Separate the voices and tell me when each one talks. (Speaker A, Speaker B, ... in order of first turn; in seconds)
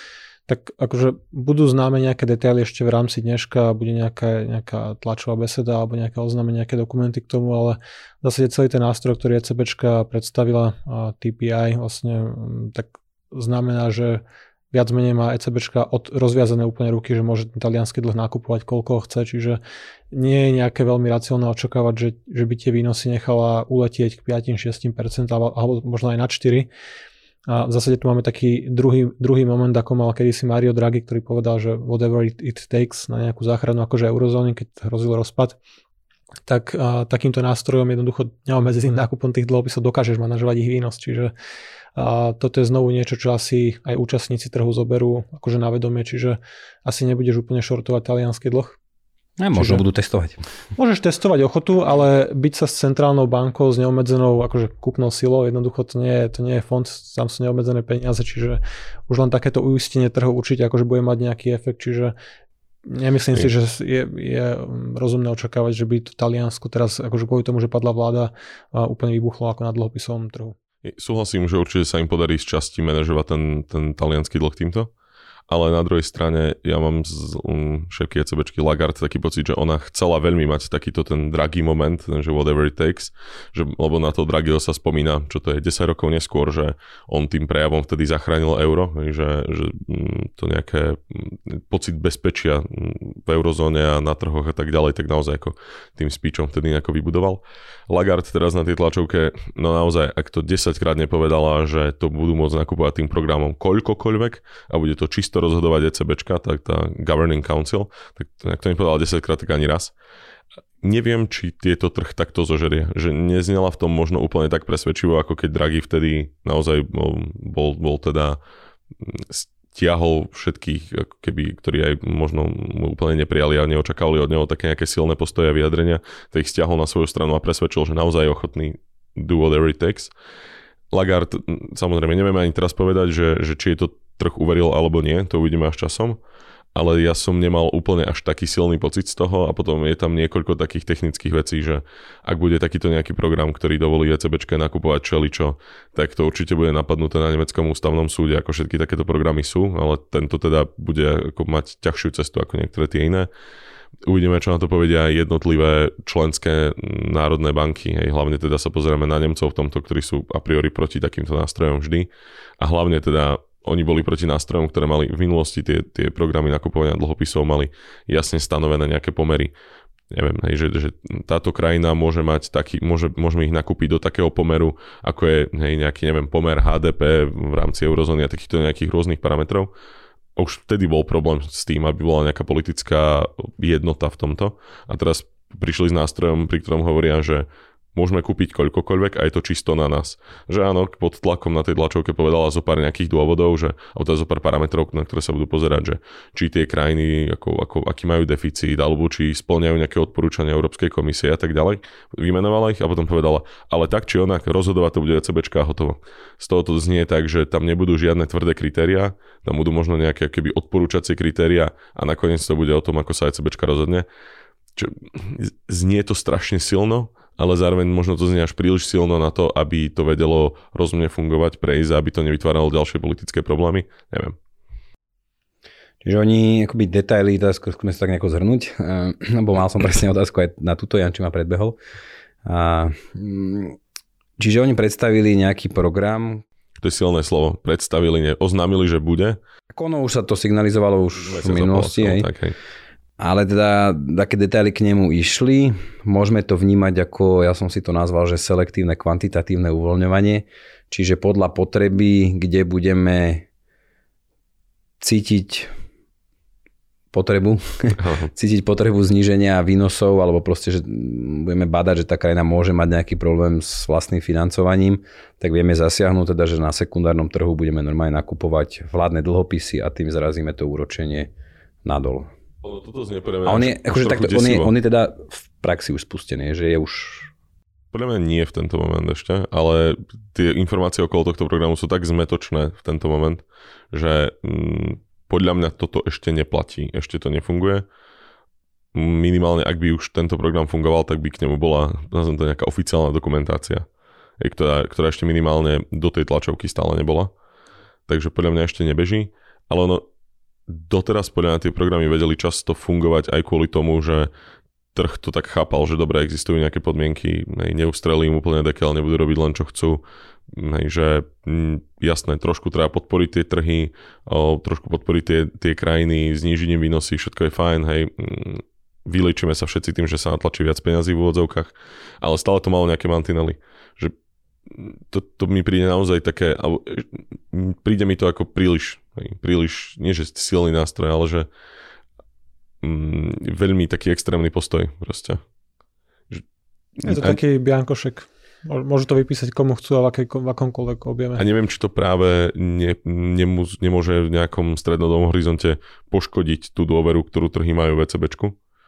Speaker A: 0.5-19.6, 20.1-26.7, 27.5-35.6, 36.5-41.3, 42.0-48.8, 49.5-49.8, 50.8-62.1, 62.9-70.5, 337.0-341.4
Speaker B: 49.4-50.4, 226.0-231.8, 232.4-233.8, 234.4-236.4, 239.7-242.3, 243.2-253.4, 255.0-255.7, 257.1-271.3, 271.8-272.3, 273.4-277.3
Speaker C: 70.8-74.9, 75.5-109.9, 110.8-118.4, 119.0-130.1, 130.9-136.2, 136.7-153.3, 154.1-162.1, 162.6-169.5, 170.1-179.7, 180.3-214.1, 214.8-224.3, 236.8-239.4, 241.2-242.6, 258.0-258.3, 272.6-274.7, 277.9-287.8, 288.9-293.9, 294.4-297.3, 298.1-300.0, 300.7-304.3, 304.9-324.1, 324.7-331.5, 332.8-335.4, 337.0-337.4, 341.4-348.6